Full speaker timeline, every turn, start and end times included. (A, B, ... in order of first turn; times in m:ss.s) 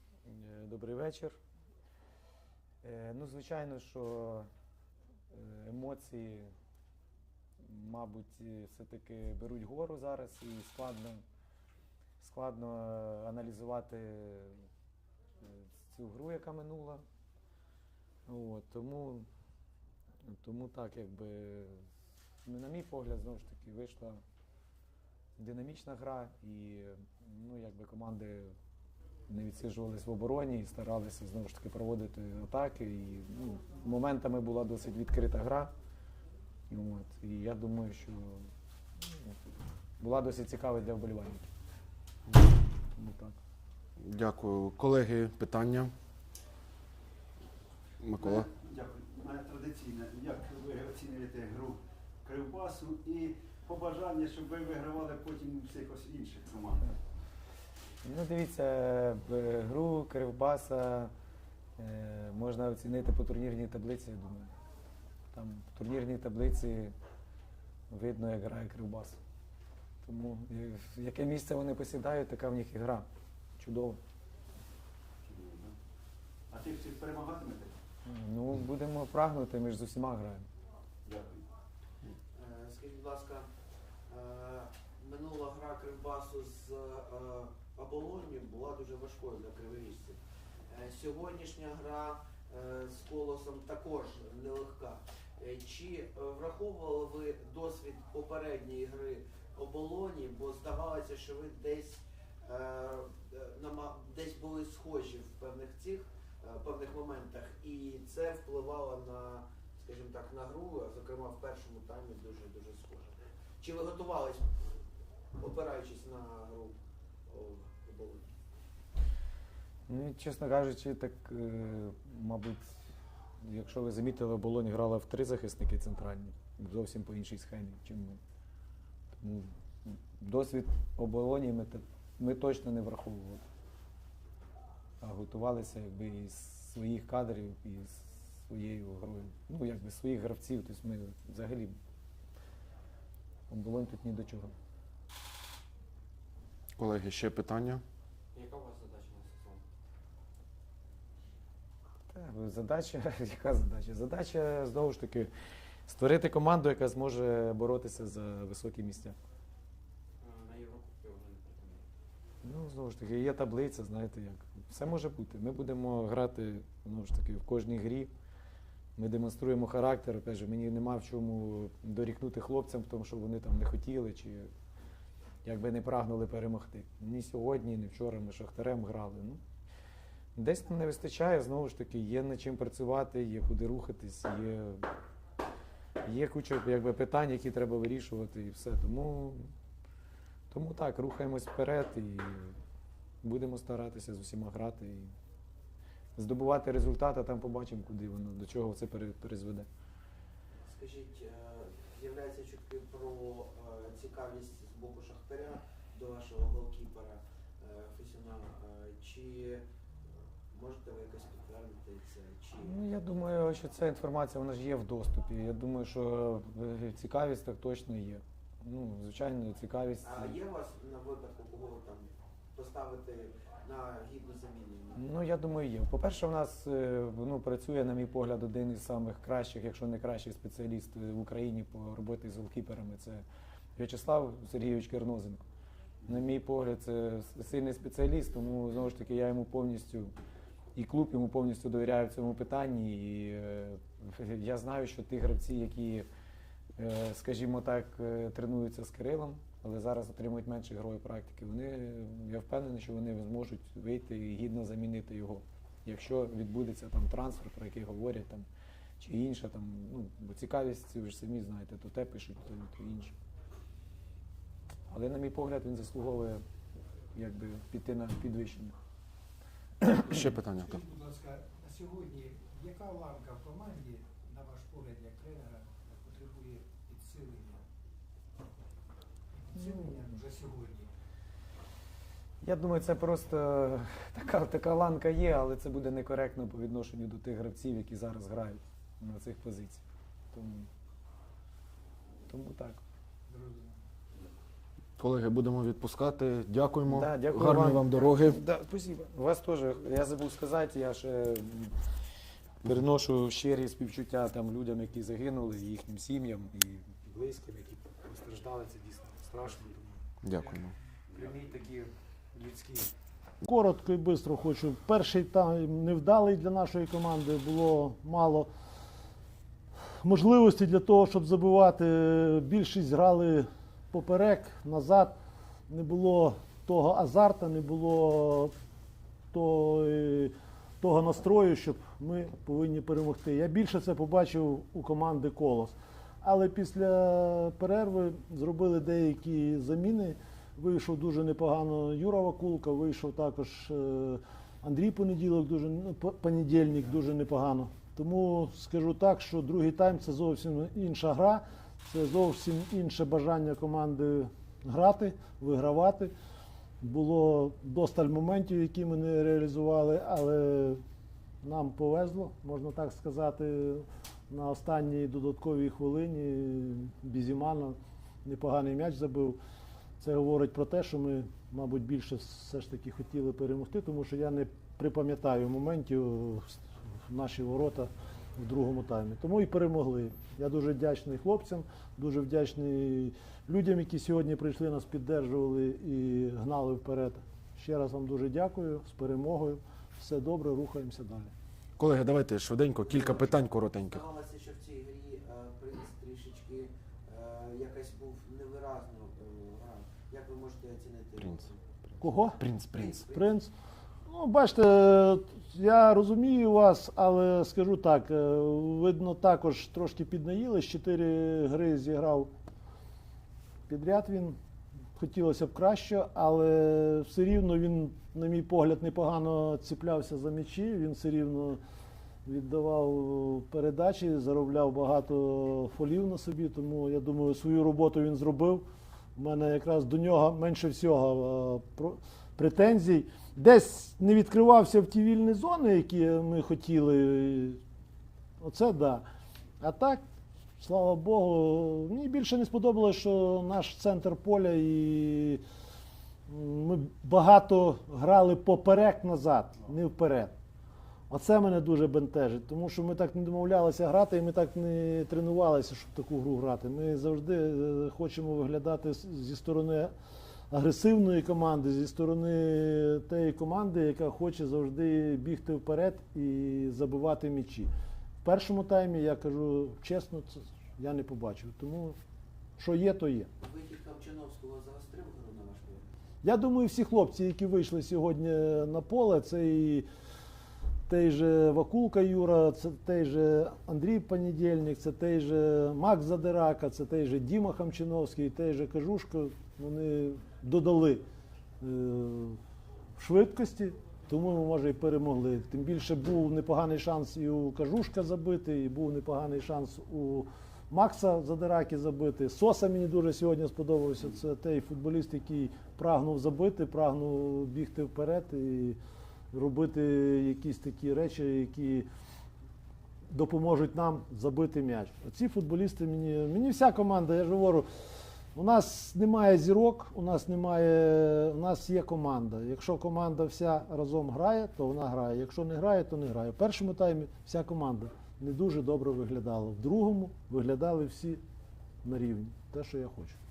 0:00.3-0:01.4 A
0:02.8-0:04.5 A
0:05.3-0:06.5 A
0:07.6-0:11.2 A
0:12.2-0:14.6 A
0:15.4-0:17.0 A
0:18.3-0:19.3 A
0:20.2-0:21.9 A
0:22.4-0:24.2 A
0:25.4-0:28.5 A
0:29.3-0:35.7 A
0:36.7-0:38.5 A
0:39.0-0:39.3 A
0:40.0-0:41.4 A
0:43.0-0:43.4 A
0:44.0-0:45.9 B
0:48.0-0:48.5 B
0:48.1-0:56.9 C
0:58.0-1:01.1 A
1:01.8-1:04.5 A
1:05.3-1:06.9 A
1:07.9-1:09.2 A
1:10.0-1:13.1 A
1:13.6-1:14.0 A
1:15.2-1:15.8 C
1:16.5-1:17.8 C
1:18.0-1:20.5 A
1:21.0-1:21.5 C
1:22.3-1:23.5 D
1:24.1-1:54.6 D
1:55.4-1:56.8 D
1:57.3-1:58.3 D
1:59.9-2:02.8 A
2:03.4-2:08.2 A
2:09.2-2:13.4 A
2:15.0-2:21.8 A
2:23.5-2:24.5 A
2:26.8-2:27.8 B
2:28.4-2:29.6 E
2:32.1-2:35.3 A
2:35.9-2:39.2 A
2:40.2-2:41.8 E
2:42.4-2:48.1 A
2:49.0-2:54.5 A
2:55.4-2:59.4 A
3:00.4-3:04.9 A
3:06.0-3:09.5 A
3:10.5-3:12.6 A
3:13.2-3:15.1 A
3:16.2-3:19.7 A
3:20.7-3:29.6 D
3:30.5-3:32.8 D
3:32.6-3:40.4 A
3:40.0-3:45.0 D
3:45.0-3:53.2 A
3:53.8-3:55.4 A
3:56.1-4:00.1 A
4:00.8-4:06.1 A
4:06.8-4:18.5 A
4:19.0-4:23.2 A
4:24.9-4:26.4 A
4:27.1-4:28.7 A
4:29.8-4:30.2 A
4:30.1-4:30.8 B
4:30.8-4:37.6 F
4:39.4-4:40.9 F
4:39.6-4:40.0 A
4:42.4-4:50.7 A
4:52.3-4:52.8 A
4:53.3-4:53.7 F
4:55.0-4:58.4 B
4:56.9-5:01.7 A
5:02.6-5:12.9 A
5:10.2-5:10.7 B
5:13.4-5:18.5 G
5:20.0-5:25.2 G
5:25.7-5:28.5 G
5:29.3-5:56.1 G
5:56.8-6:00.8 G
6:01.4-6:09.4 G
6:10.0-6:31.3 G
6:31.8-6:34.0 B
6:32.9-6:41.6 D
6:42.0-6:42.4 G
6:42.4-6:43.0 B
6:42.7-6:43.3 D
6:43.1-6:43.5 G
6:44.1-6:52.3 G
6:53.7-6:54.4 G
6:55.0-7:01.6 G
7:02.3-7:08.6 G
7:09.2-7:17.6 G
7:18.4-7:19.0 G
7:19.6-7:20.0 G
7:20.6-7:25.4 G
7:26.3-7:30.3 G
7:31.1-7:39.9 G
7:40.5-7:47.7 G
7:48.2-7:52.0 G
7:52.6-7:53.3 G
7:53.4-7:55.9 D
7:56.2-7:59.9 G
8:00.9-8:11.0 G
8:11.6-8:12.4 G
8:13.0-8:28.8 G
8:29.3-8:31.9 G
8:33.1-8:37.7 G
8:38.4-8:51.2 G
8:51.8-8:53.2 G